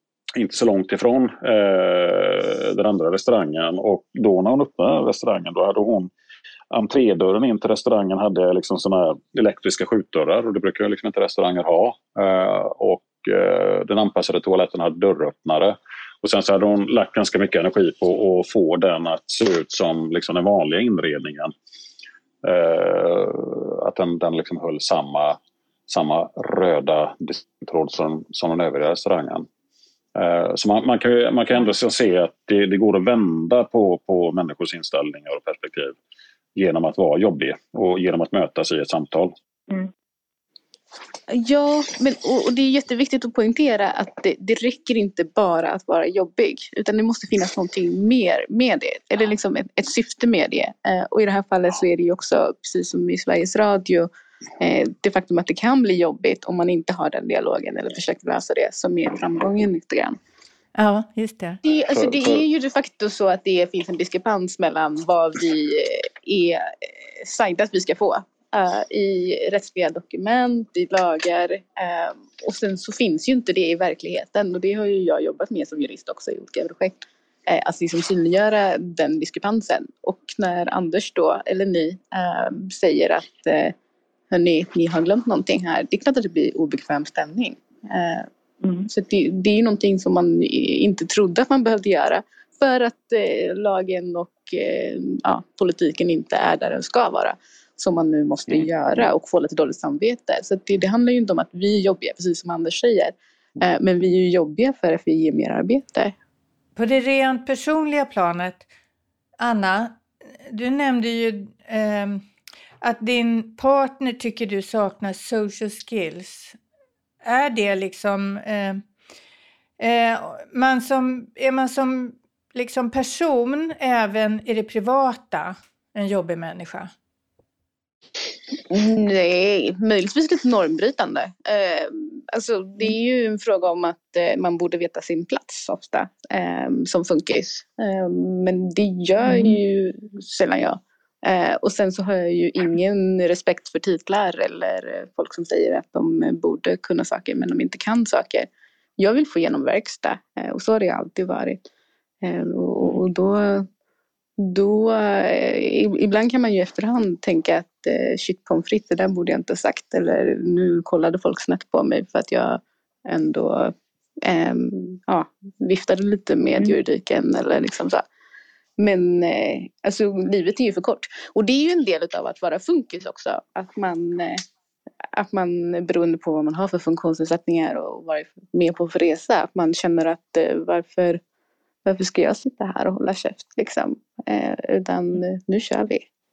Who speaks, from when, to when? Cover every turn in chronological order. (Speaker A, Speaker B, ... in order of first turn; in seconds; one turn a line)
Speaker A: 0.4-6.1
Speaker A: 6.7-21.5
Speaker A: 22.4-29.5
Speaker A: 30.2-36.0
Speaker A: 36.6-39.3
Speaker B: 41.3-54.1
Speaker B: 54.6-60.2
Speaker C: 60.8-61.6
Speaker B: 61.6-66.6
Speaker A: 62.0-62.4
Speaker B: 67.2-83.7
Speaker B: 84.3-106.1
Speaker C: 106.8-108.7
Speaker C: 109.4-112.2
Speaker C: 112.8-116.6
Speaker C: 117.2-118.8
Speaker C: 119.8-126.9
Speaker B: 128.7-151.6
Speaker B: 152.2-153.7
Speaker B: 154.4-163.7
Speaker B: 164.2-168.0
Speaker B: 168.8-174.4
Speaker B: 175.2-181.2
Speaker B: 181.8-186.0